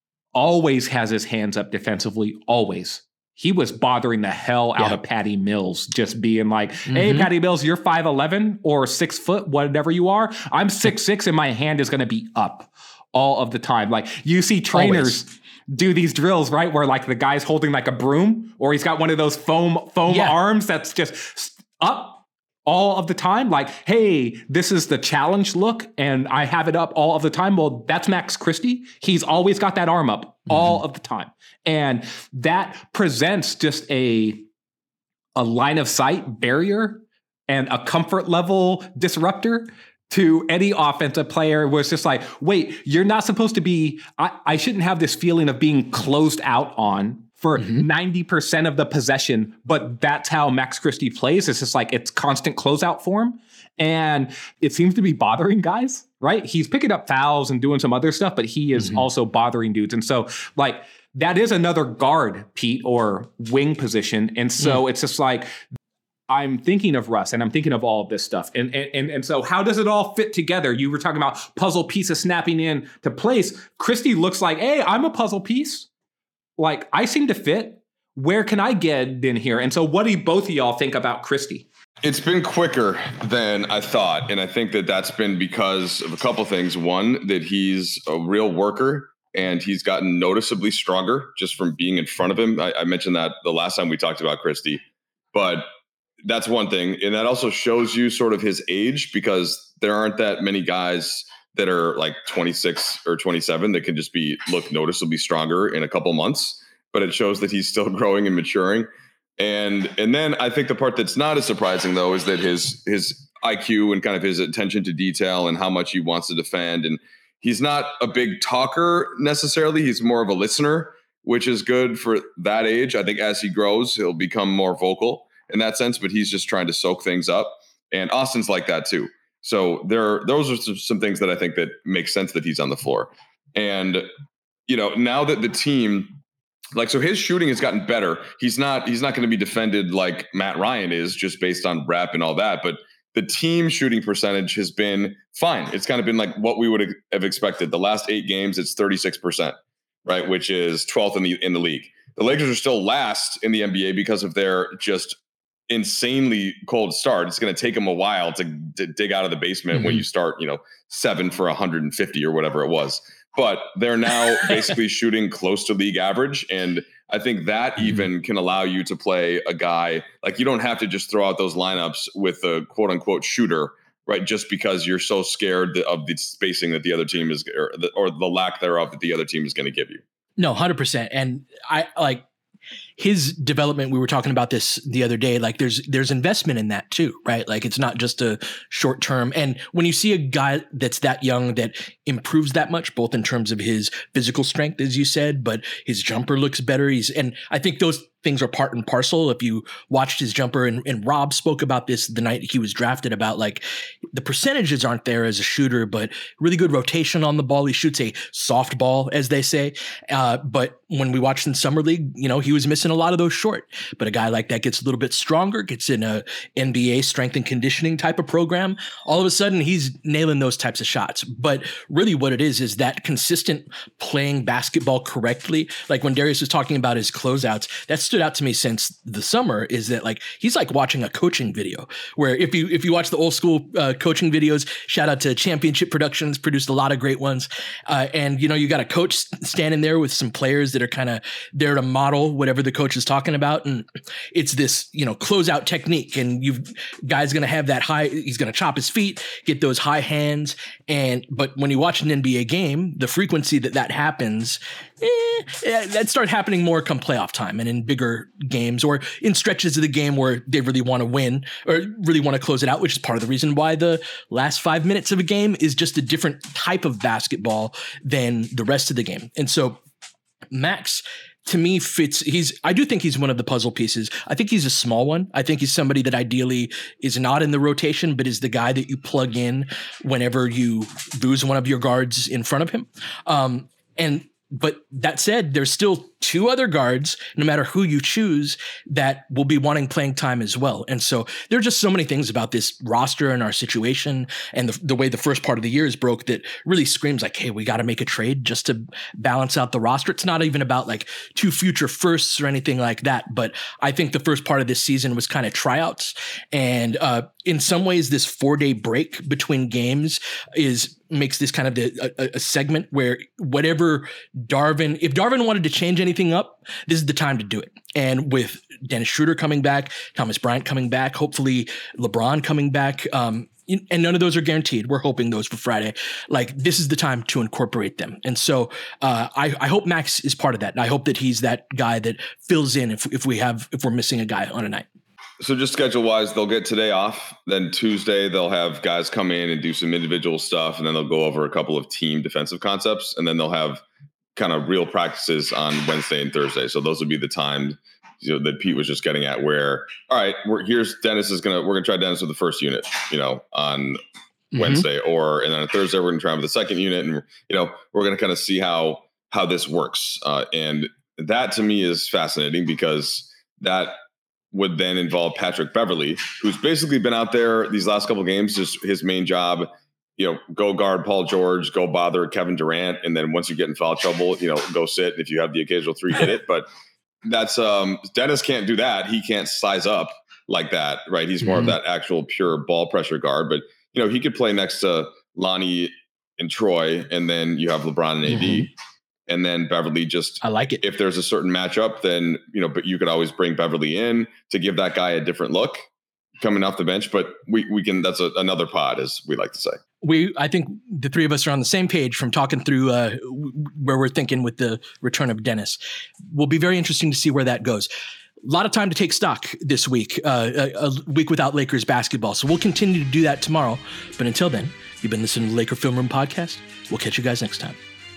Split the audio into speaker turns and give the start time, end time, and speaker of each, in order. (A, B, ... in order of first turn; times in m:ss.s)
0:00.3-0:34.5 A
0:06.9-0:07.3 B
0:14.7-0:15.2 B
0:20.1-0:20.4 B
0:30.5-0:30.8 B
0:35.4-1:05.6 A
0:47.6-0:47.8 B
0:58.8-0:59.0 B
1:06.3-1:15.9 A
1:16.6-1:21.7 A
1:22.0-1:34.8 C
1:35.3-1:35.7 C
1:36.2-1:48.9 C
1:49.4-2:14.1 C
2:14.7-2:16.2 C
2:16.7-2:35.2 C
2:35.7-3:00.0 C
2:39.7-2:40.0 B
3:00.4-3:02.2 B
3:03.0-4:29.8 B
4:30.5-5:34.9 B
5:35.4-5:43.8 C
5:44.4-5:54.0 C
5:54.5-5:54.8 B
5:54.5-6:04.0 C
6:04.5-6:16.7 C
6:17.2-6:28.7 C
6:21.4-6:21.8 B
6:28.3-6:28.7 B
6:29.3-6:35.9 C
6:30.4-6:30.8 B
6:36.4-6:39.8 C
6:40.0-6:47.9 B
6:48.4-6:57.8 B